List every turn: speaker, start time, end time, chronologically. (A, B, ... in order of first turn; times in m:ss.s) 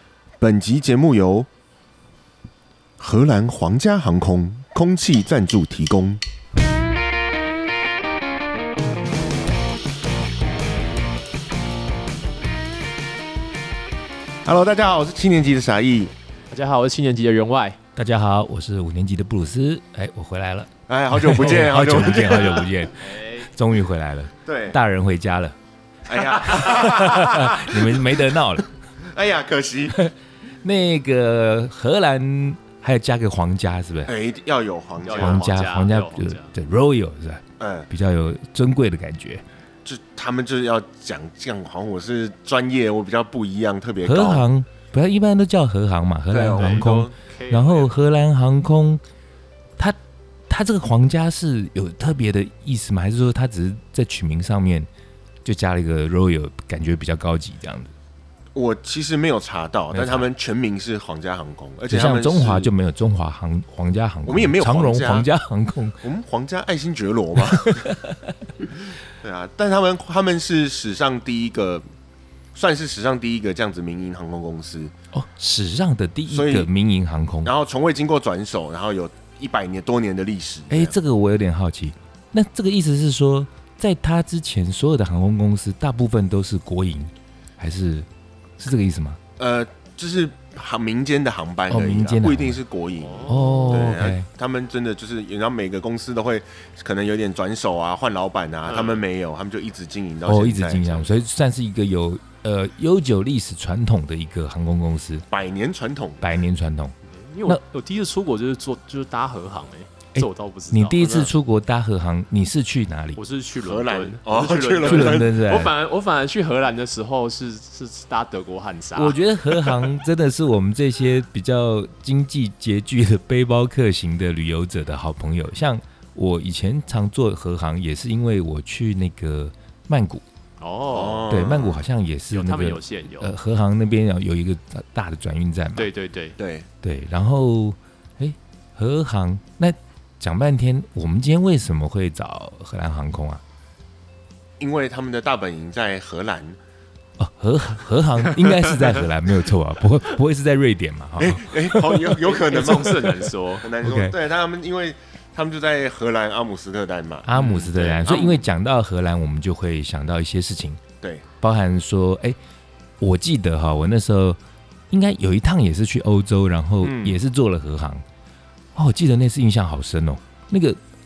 0:00.4-0:01.5 A
0:03.0-0:06.2 A
0:14.4-0:16.1 A
0:16.5-0:17.8 B
0:18.0-0:25.6 C
0:20.9-0:22.7 A
0:23.0-0:23.5 B
0:24.4-0:24.8 A
0:26.1-0:28.2 A
0:26.3-0:28.7 C
0:29.0-0:30.0 A
0:29.9-0:34.1 C
0:34.1-0:35.5 A
0:35.0-0:36.6 B
0:35.1-0:39.4 C
0:37.6-0:37.9 A
0:39.8-0:44.5 A
0:44.0-0:49.0 C
0:46.3-0:47.1 A
0:46.6-0:47.9 B
0:50.5-0:54.9 C
0:55.4-0:57.9 C
0:58.5-1:02.7 A
0:59.9-1:00.3 C
1:01.9-1:06.0 C
1:04.2-1:05.3 A
1:06.0-1:08.0 A
1:07.5-1:08.3 C
1:09.2-1:11.8 A
1:12.5-1:14.9 A
1:15.1-1:17.5 C
1:16.3-1:16.7 A
1:17.4-1:21.0 A
1:20.7-1:28.1 C
1:28.6-1:29.2 C
1:29.4-1:41.1 A
1:31.7-1:32.6 C
1:33.0-1:33.9 B
1:33.2-1:34.3 C
1:38.7-1:39.0 B
1:40.2-1:45.3 C
1:45.3-1:46.3 A
1:46.2-1:46.9 C
1:47.1-1:51.2 B
1:50.2-1:53.2 C
1:51.0-1:51.3 A
1:53.2-1:59.8 B
1:53.6-1:55.3 A
1:54.8-1:55.7 C
1:58.9-2:10.2 C
2:10.6-2:11.3 B
2:10.9-2:11.8 A
2:11.3-2:15.9 C
2:12.3-2:13.3 B
2:15.8-2:16.4 B
2:16.4-2:16.7 A
2:16.8-2:23.4 C
2:24.6-2:26.6 A
2:27.2-2:32.2 C
2:31.2-2:38.4 A
2:32.2-2:33.6 B
2:32.7-2:33.2 C
2:33.8-2:34.2 C
2:37.2-2:40.8 C
2:37.4-2:37.7 B
2:41.4-2:42.4 C
2:43.0-2:44.4 C
2:44.9-2:48.0 C
2:46.8-2:47.2 A
2:48.8-2:50.8 C